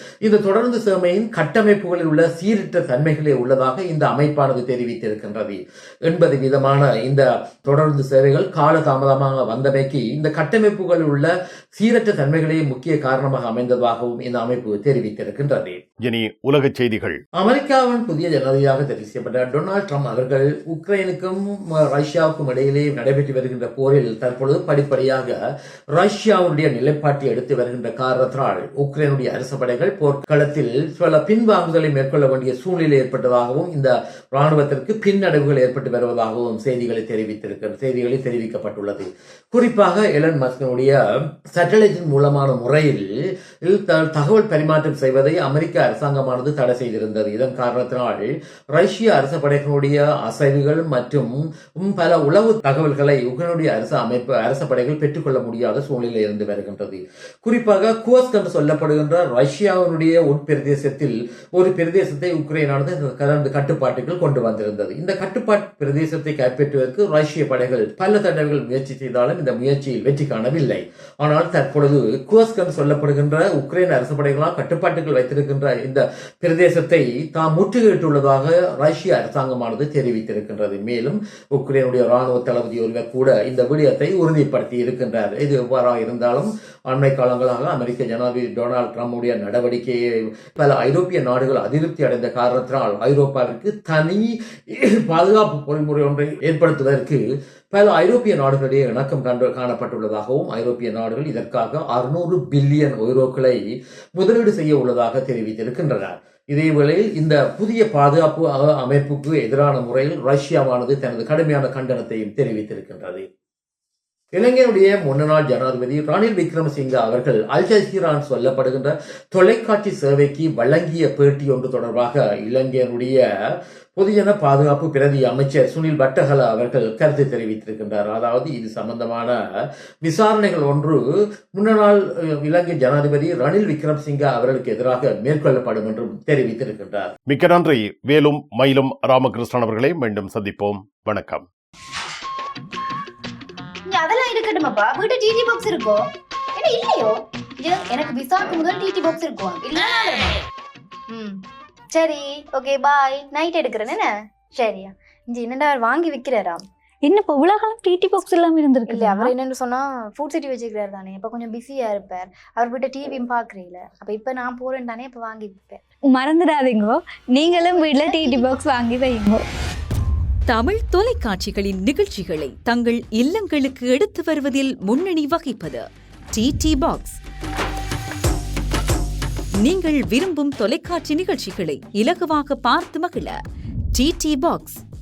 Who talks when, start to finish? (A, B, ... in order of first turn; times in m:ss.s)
0:00.2-0:15.8 A
0:16.0-0:17.2 B
0:17.4-0:25.4 A
0:25.9-0:43.1 A
0:43.6-1:43.6 A
1:44.2-1:53.2 A
1:54.3-2:03.2 A
2:04.0-2:09.4 A
2:10.0-2:11.0 A
2:11.6-2:17.1 A
2:17.3-2:21.5 B
2:23.9-2:30.4 C
2:31.1-2:36.6 C
2:37.0-2:39.3 D
2:38.9-2:45.8 C
2:46.1-2:49.4 D
2:47.5-2:48.6 C
2:50.5-2:57.2 E
2:59.6-3:03.4 E
3:03.9-3:04.8 E